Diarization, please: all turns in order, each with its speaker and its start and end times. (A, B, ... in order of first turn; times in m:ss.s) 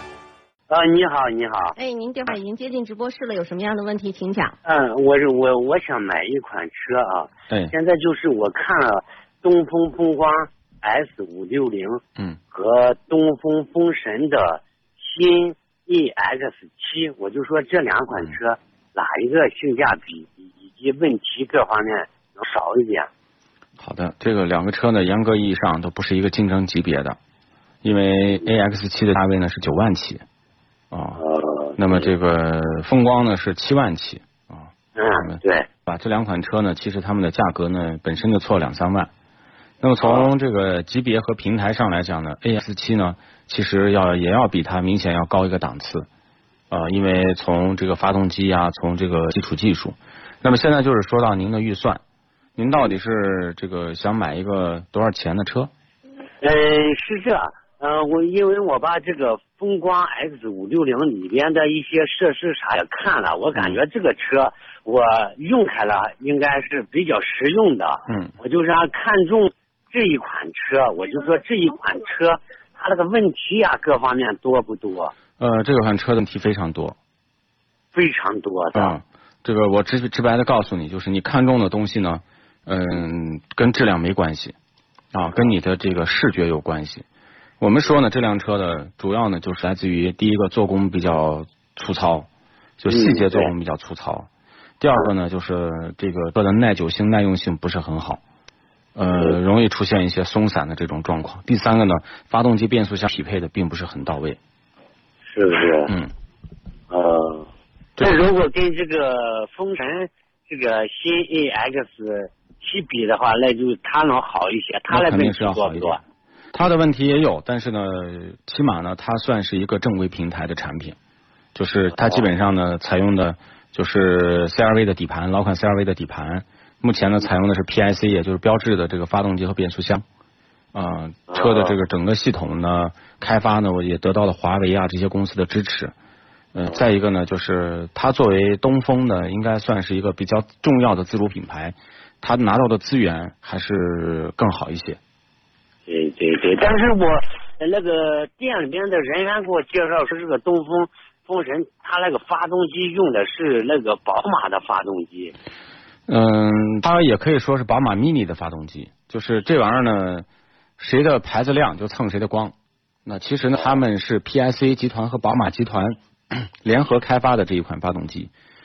0:00.7-0:01.8 A
0:01.8-0:04.6 B
0:04.6-0:23.1 A
0:07.5-0:07.7 C
0:23.8-0:27.2 C
0:27.8-0:30.2 C
0:30.9-0:31.2 C
0:31.2-0:32.2 A
0:31.8-0:39.1 C
0:35.0-0:35.7 A
0:39.8-0:46.1 C
0:40.0-0:40.3 A
0:46.7-0:52.0 C
0:52.6-0:55.7 C
0:56.4-1:15.1 A
1:03.6-1:03.8 C
1:08.1-1:08.3 C
1:15.4-1:17.0 C
1:17.9-1:19.0 A
1:18.7-1:24.6 C
1:25.1-1:27.0 C
1:25.2-1:25.5 A
1:27.6-1:32.3 C
1:32.8-1:34.3 C
1:32.9-1:33.5 A
1:34.8-1:38.2 C
1:39.0-1:44.4 C
1:39.1-1:39.4 A
1:45.3-1:45.9 A
1:46.9-1:56.0 A
1:48.0-1:48.2 C
1:54.9-1:56.0 C
1:56.5-2:01.0 C
2:01.6-2:10.0 C
2:01.9-2:02.3 A
2:10.7-2:15.9 C
2:11.3-2:11.8 A
2:16.5-2:25.0 C
2:25.9-2:35.4 A
2:36.1-2:40.3 C
2:40.8-2:42.5 C
2:43.1-2:48.3 C